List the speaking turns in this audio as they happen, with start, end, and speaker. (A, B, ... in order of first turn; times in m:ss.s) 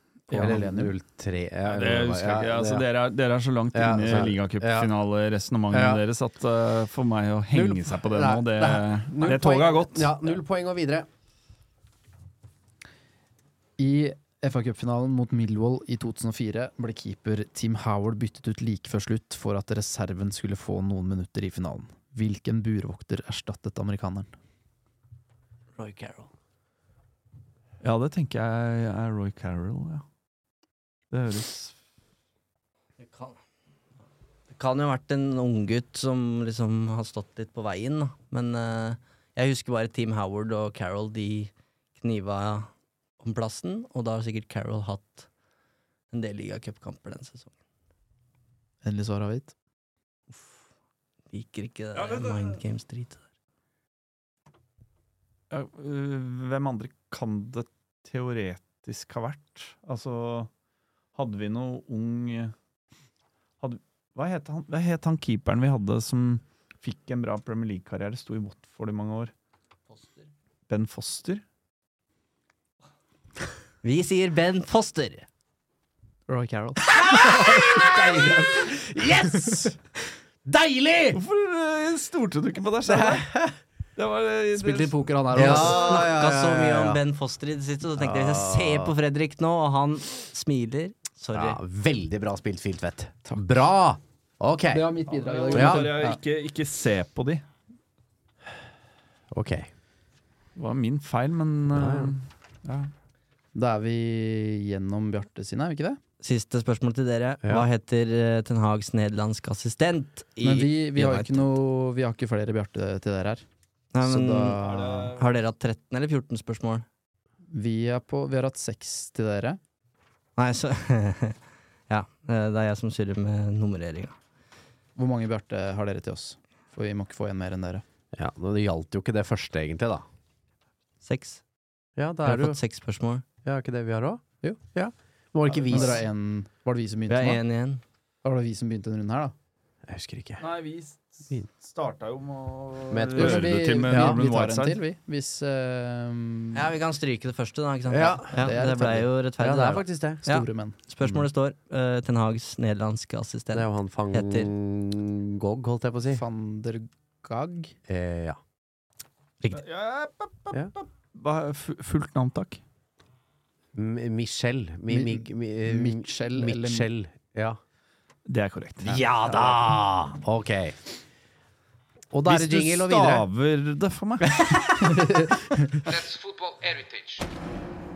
0:00.3-0:00.9 A
0:00.3-0:02.9 B
0:01.7-0:10.2 C
0:03.7-0:04.9 B
0:05.7-0:06.0 B
0:07.5-0:11.1 B
0:13.8-0:24.3 A
0:25.8-0:26.3 D
0:27.8-0:30.0 C
0:31.1-0:31.7 C
0:33.0-0:33.4 D
0:34.5-0:45.3 D
0:46.1-0:47.5 D
0:48.8-0:49.5 A
0:51.3-0:53.2 D
0:52.0-0:52.6 C
0:55.5-1:00.5 C
1:01.2-1:02.5 C
1:03.6-1:09.3 C
1:09.9-1:10.3 D
1:10.7-1:11.4 C
1:13.8-1:15.3 D
1:16.3-1:18.7 A
1:16.9-1:19.7 B
1:20.4-1:21.2 B
1:21.1-1:23.3 C
1:22.8-1:23.6 B
1:24.0-1:25.0 C
1:24.5-1:26.0 A
1:25.3-1:27.0 B
1:25.4-1:31.6 D
1:28.0-1:28.9 B
1:31.3-1:35.0 B
1:34.7-1:36.2 A
1:35.1-1:37.4 C
1:35.5-1:36.0 B
1:39.3-1:39.7 B
1:40.6-1:42.9 C
1:41.7-1:42.2 B
1:43.6-1:46.0 A
1:46.2-1:51.5 D
1:50.4-1:53.4 A
1:53.9-1:56.9 D
1:54.0-1:55.1 A
1:54.6-1:55.3 C
1:57.5-1:59.6 A
2:00.4-2:01.4 D
2:01.9-2:04.2 D
2:05.0-2:07.8 A
2:08.1-2:10.1 B
2:11.0-2:11.4 D
2:12.0-2:12.6 B
2:12.2-2:13.2 D
2:13.4-2:16.0 B
2:15.5-2:15.9 C
2:15.7-2:17.4 A
2:17.1-2:17.8 D
2:18.2-2:19.3 A
2:19.9-2:20.4 B
2:20.4-2:24.8 C
2:22.9-2:24.2 B
2:23.2-2:26.7 A
2:26.5-2:34.5 D
2:27.9-2:28.4 B
2:28.3-2:29.1 A
2:29.4-2:30.2 B
2:30.2-2:31.2 A
2:33.5-2:36.2 B
2:36.1-2:37.8 A
2:37.9-2:38.4 B
2:39.5-2:42.6 C
2:43.8-2:47.6 B
2:44.9-2:46.9 A
2:48.3-2:49.6 C
2:48.8-2:50.8 B
2:52.1-2:53.3 B
2:52.3-2:54.7 C
2:54.8-2:55.8 A
2:56.2-2:57.2 B